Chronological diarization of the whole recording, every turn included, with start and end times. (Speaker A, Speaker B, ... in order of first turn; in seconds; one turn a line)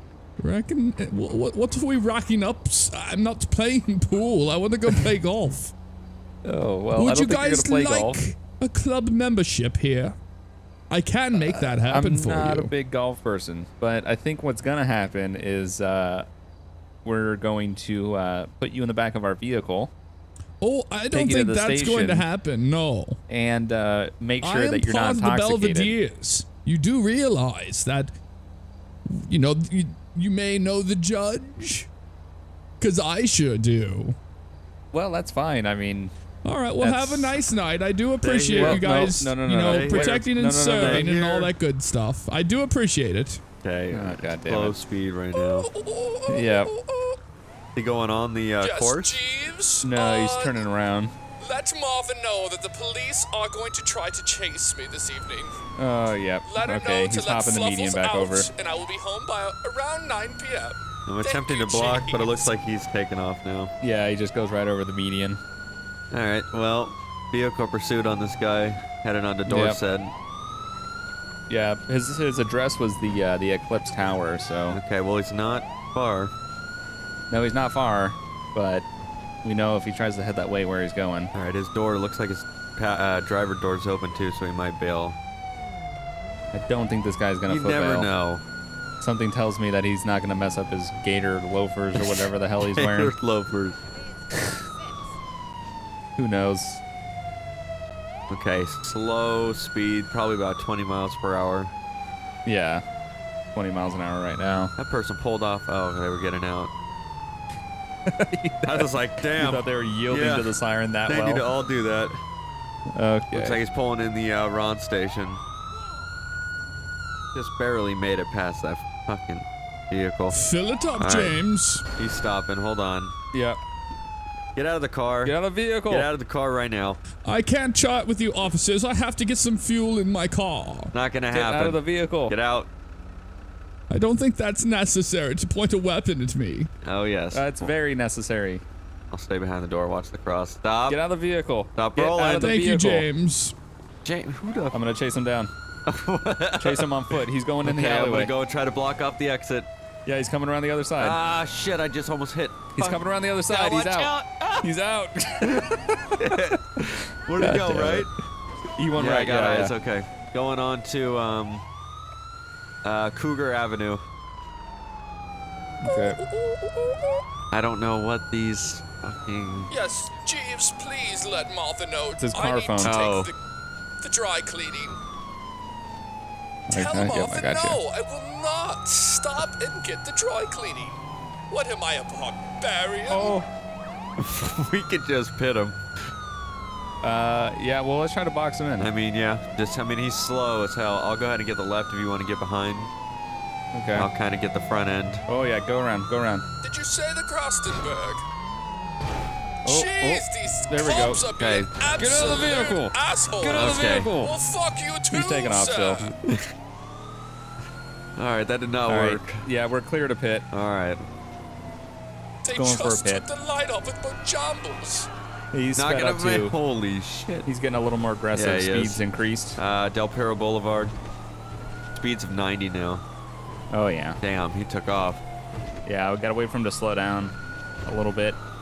Speaker A: 0.4-5.7
Speaker B: 4.9-5.1
Speaker B: 6.4-8.2
Speaker A: 6.9-10.2
Speaker A: 10.9-12.7
Speaker B: 11.3-16.3
Speaker B: 17.0-19.9
Speaker A: 20.6-23.2
Speaker B: 21.1-22.3
Speaker B: 23.3-25.9
Speaker A: 24.4-28.1
Speaker A: 29.1-31.9
Speaker A: 32.8-34.2
Speaker B: 34.9-36.1
Speaker A: 36.4-43.4
Speaker B: 36.8-37.4
Speaker C: 38.2-38.9
Speaker B: 38.5-41.1
Speaker C: 39.5-40.1
Speaker C: 40.7-41.5
Speaker C: 43.6-45.7
Speaker B: 43.9-44.8
Speaker A: 45.4-47.2
Speaker B: 46.3-46.7
Speaker C: 47.8-49.2
Speaker A: 48.6-50.6
Speaker B: 49.8-51.1
Speaker A: 51.4-55.5
Speaker B: 55.8-58.5
Speaker A: 56.5-62.5
Speaker C: 61.1-63.7
Speaker B: 63.8-65.4
Speaker C: 66.1-70.1
Speaker B: 69.5-69.8
Speaker B: 71.5-74.8
Speaker C: 74.7-76.3
Speaker B: 77.3-78.8
Speaker B: 79.4-81.3
Speaker C: 81.3-85.2
Speaker B: 86.5-88.1
Speaker C: 87.5-88.4
Speaker B: 89.0-93.1
Speaker C: 92.0-93.8
Speaker B: 96.2-96.8
Speaker C: 98.3-101.7
Speaker B: 102.5-102.8
Speaker B: 103.5-104.7
Speaker C: 104.8-106.7
Speaker B: 108.1-111.4
Speaker C: 108.6-110.5
Speaker C: 111.1-112.2
Speaker B: 112.9-113.6
Speaker C: 113.3-115.4
Speaker C: 117.3-120.4
Speaker A: 120.3-121.8
Speaker C: 121.0-121.4
Speaker C: 122.0-123.1
Speaker B: 123.3-123.6
Speaker C: 124.5-125.3
Speaker B: 125.2-126.1
Speaker C: 125.9-127.0
Speaker A: 127.2-130.9
Speaker C: 130.9-132.7
Speaker B: 131.3-132.3
Speaker A: 133.9-136.7
Speaker C: 136.8-137.7
Speaker B: 137.3-138.6
Speaker C: 139.1-141.0
Speaker B: 140.9-143.1
Speaker C: 141.8-142.5
Speaker A: 142.4-143.5
Speaker C: 144.0-144.8
Speaker B: 144.7-145.5
Speaker C: 145.9-146.9
Speaker B: 146.6-148.3
Speaker C: 147.6-149.7
Speaker B: 150.1-151.2
Speaker C: 151.0-154.7
Speaker B: 152.8-156.5
Speaker C: 156.2-158.1
Speaker B: 157.4-158.1
Speaker B: 158.8-159.7
Speaker C: 158.9-161.6
Speaker C: 162.8-164.0
Speaker B: 165.8-166.2
Speaker A: 165.9-167.0
Speaker C: 167.5-169.7
Speaker A: 169.7-173.3
Speaker B: 172.2-173.0
Speaker C: 172.8-173.3
Speaker A: 174.0-175.0
Speaker A: 176.7-183.4
Speaker B: 176.7-177.8
Speaker B: 183.1-183.5
Speaker C: 184.2-185.8
Speaker B: 187.0-188.9
Speaker C: 188.8-192.9
Speaker B: 193.7-194.1
Speaker C: 193.9-195.2
Speaker B: 195.3-196.4
Speaker A: 196.6-198.2
Speaker B: 199.6-201.3
Speaker A: 199.6-206.1
Speaker C: 201.3-201.7
Speaker B: 201.9-204.3
Speaker C: 203.5-204.2
Speaker B: 205.1-206.0
Speaker C: 208.2-209.4
Speaker B: 208.9-210.4
Speaker C: 210.5-211.1
Speaker A: 212.4-215.1
Speaker B: 212.5-213.2
Speaker B: 215.5-216.5
Speaker C: 215.7-217.5
Speaker B: 217.4-219.6
Speaker C: 218.3-219.0
Speaker C: 219.6-220.9
Speaker C: 221.9-223.0
Speaker B: 223.7-224.2
Speaker C: 224.2-225.2
Speaker B: 225.8-228.4